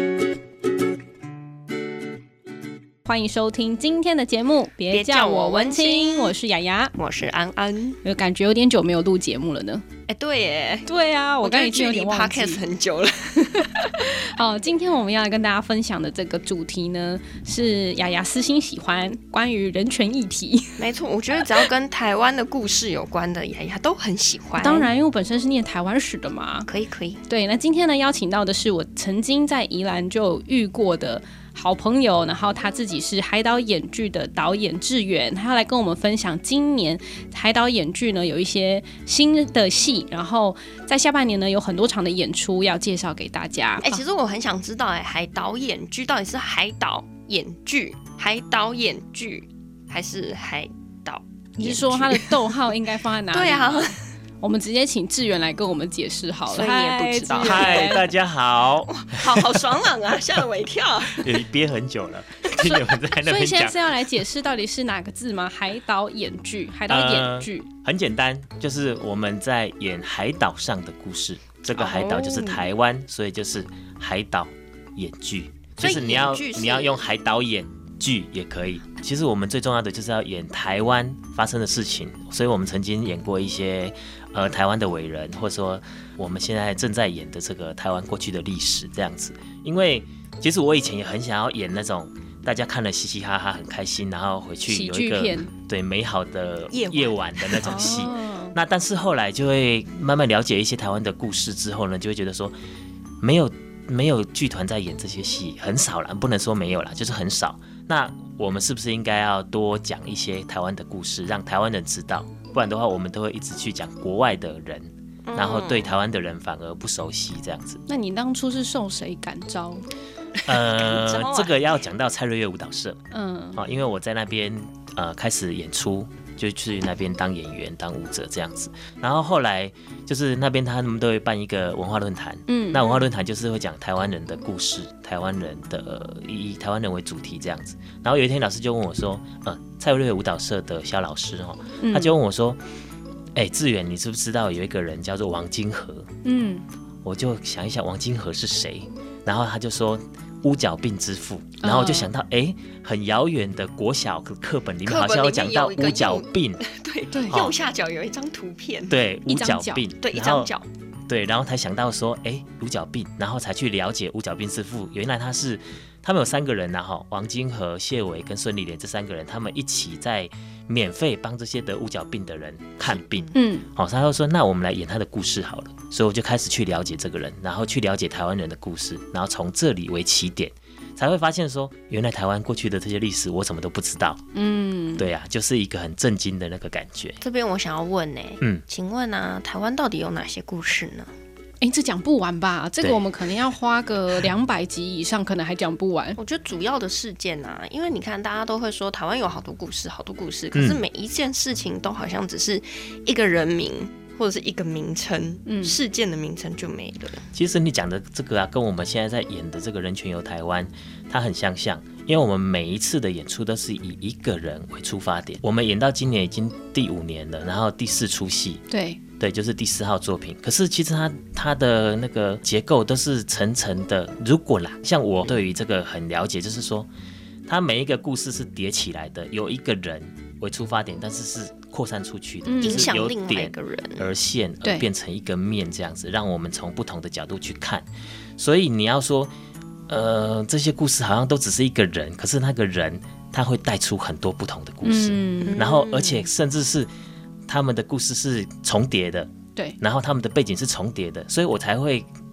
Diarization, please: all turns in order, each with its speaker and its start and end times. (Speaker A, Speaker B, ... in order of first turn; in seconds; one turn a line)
Speaker A: 3.0-6.9
Speaker B: 4.9-6.4
Speaker B: 7.0-8.0
Speaker A: 8.0-9.8
Speaker B: 10.1-10.9
Speaker A: 10.9-12.6
Speaker B: 11.4-13.9
Speaker A: 13.6-20.8
Speaker B: 20.8-24.9
Speaker A: 24.6-26.7
Speaker B: 26.7-27.2
Speaker A: 27.3-44.0
Speaker B: 43.8-52.7
Speaker A: 51.6-58.1
Speaker B: 53.3-54.0
Speaker B: 56.5-58.0
Speaker C: 57.4-59.8
Speaker B: 58.9-61.3
Speaker C: 61.1-64.0
Speaker A: 62.6-67.7
Speaker C: 66.9-102.5
Speaker B: 71.8-72.5
Speaker A: 71.9-72.5
Speaker B: 75.8-77.0
Speaker A: 94.7-95.5
Speaker B: 96.7-98.1
Speaker A: 97.6-98.5
Speaker C: 103.2-117.8
Speaker B: 115.2-115.9
Speaker A: 117.9-119.8
Speaker C: 120.4-123.0
Speaker B: 120.5-121.6
Speaker A: 123.1-123.7
Speaker C: 123.5-142.6
Speaker A: 132.5-133.0
Speaker A: 141.8-142.1
Speaker C: 143.3-146.1
Speaker A: 146.2-146.6
Speaker C: 147.0-156.6
Speaker A: 151.6-152.1
Speaker B: 154.8-159.0
Speaker C: 157.3-157.6
Speaker C: 158.9-160.5
Speaker A: 159.3-159.8
Speaker B: 160.0-160.7
Speaker C: 161.1-184.2
Speaker B: 172.8-173.4
Speaker A: 173.3-173.7
Speaker A: 184.3-185.1
Speaker C: 185.0-187.2
Speaker B: 187.2-191.1
Speaker A: 191.6-196.2
Speaker B: 196.2-207.2
Speaker C: 200.5-200.8
Speaker A: 205.5-205.8
Speaker C: 207.3-218.6
Speaker A: 218.7-219.0
Speaker C: 219.2-226.9
Speaker C: 227.5-239.3
Speaker A: 232.4-232.9
Speaker B: 232.6-234.1
Speaker C: 239.9-246.9
Speaker A: 244.8-245.6
Speaker B: 245.4-246.3
Speaker C: 247.5-252.1